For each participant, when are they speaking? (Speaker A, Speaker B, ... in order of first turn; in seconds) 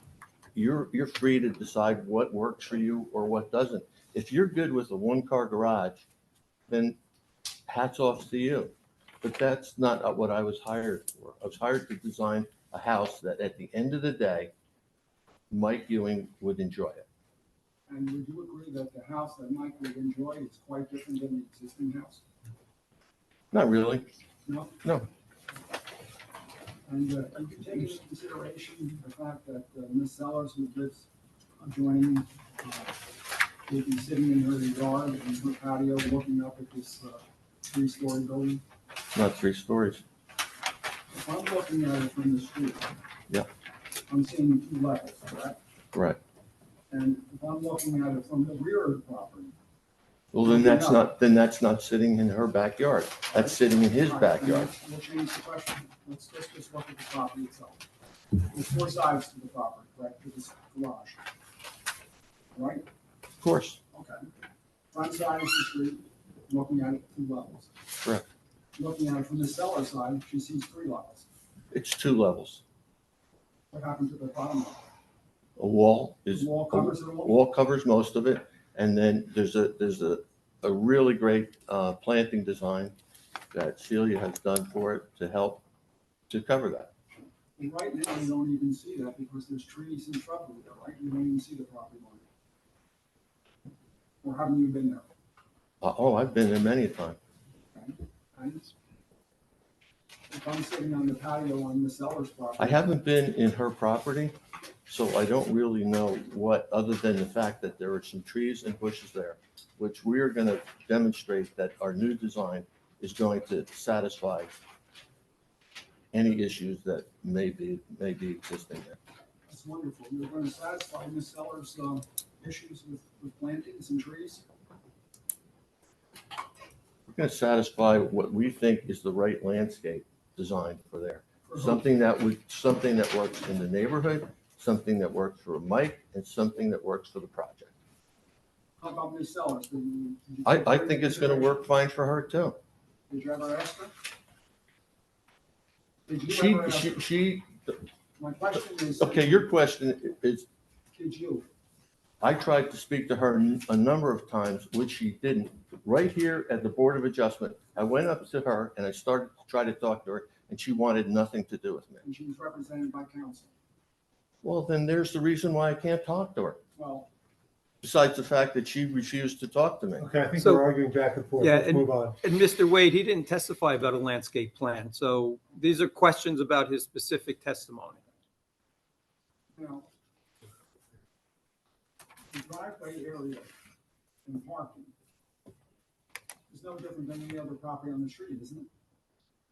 Speaker A: 0.5-6.0, 6.7-7.0, 7.7-14.5, 15.5-17.1, 23.5-24.1, 39.1-40.0, 50.3-54.7, 63.4-63.8, 71.7-72.6, 75.6-82.9, 83.5-85.6, 86.3-86.9, 95.8-97.2, 102.6-104.3, 104.8-114.6, 116.1-119.0, 127.1-137.7, 140.4-142.6, 146.3-147.8, 149.0-150.4, 152.2-162.0, 164.4-166.6, 167.8-170.1
Speaker B: 17.9-22.2, 24.4-24.8, 26.9-31.1, 31.6-33.0, 33.6-38.6, 41.1-42.9, 44.1-45.6, 46.9-49.5, 50.4-51.1, 53.3-57.8, 58.4-61.2, 62.5-62.8, 63.9-64.2, 64.9-67.7, 68.8-71.2, 73.7-74.8, 76.3-77.4, 87.6-92.2, 94.2-95.0, 97.7-98.7, 100.3-102.8, 119.5-124.4, 131.5-131.8, 138.8-141.6, 143.1-143.9, 146.1-147.0, 148.2-149.5, 150.9-151.5, 162.0-163.5, 166.8-167.1, 179.6-179.9, 182.3-183.5, 184.2-184.9, 186.5-188.7
Speaker C: 170.0-172.2
Speaker D: 170.4-170.6, 171.4-178.0